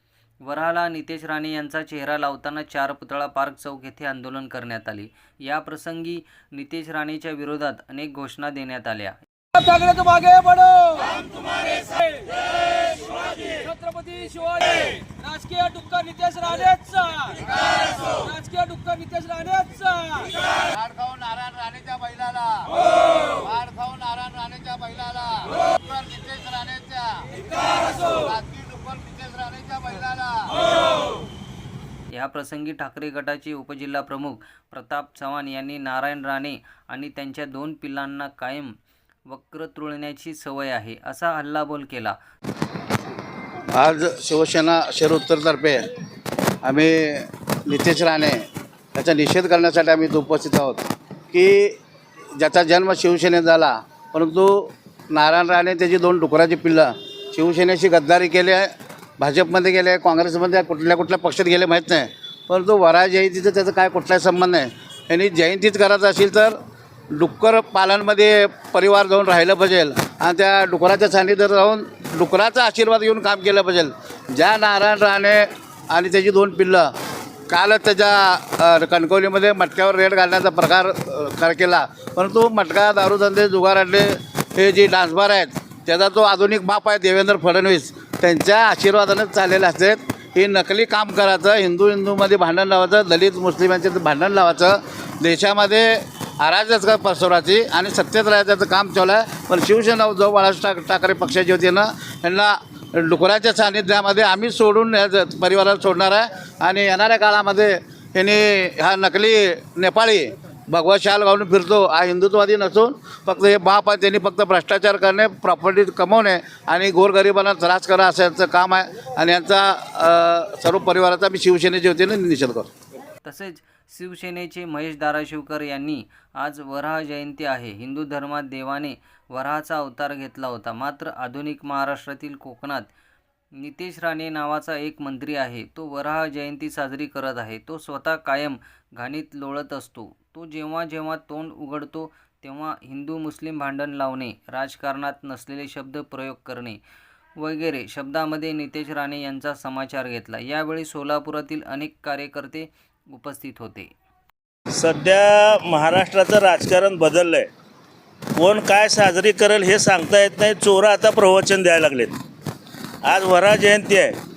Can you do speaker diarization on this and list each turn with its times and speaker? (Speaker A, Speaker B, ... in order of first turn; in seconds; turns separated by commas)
Speaker A: 0.4-9.2, Speaker B: 9.5-17.4, Speaker B: 18.1-20.3, Speaker C: 20.5-30.8, Speaker A: 32.1-38.8, Speaker A: 39.3-42.2, Speaker C: 43.7-45.9, Speaker C: 46.6-51.8, Speaker C: 52.4-66.6, Speaker C: 67.1-76.9, Speaker C: 77.5-122.7, Speaker A: 123.2-132.9, Speaker A: 133.6-146.8, Speaker A: 147.4-153.9, Speaker D: 154.7-157.5, Speaker D: 158.4-162.2, Speaker D: 163.1-164.2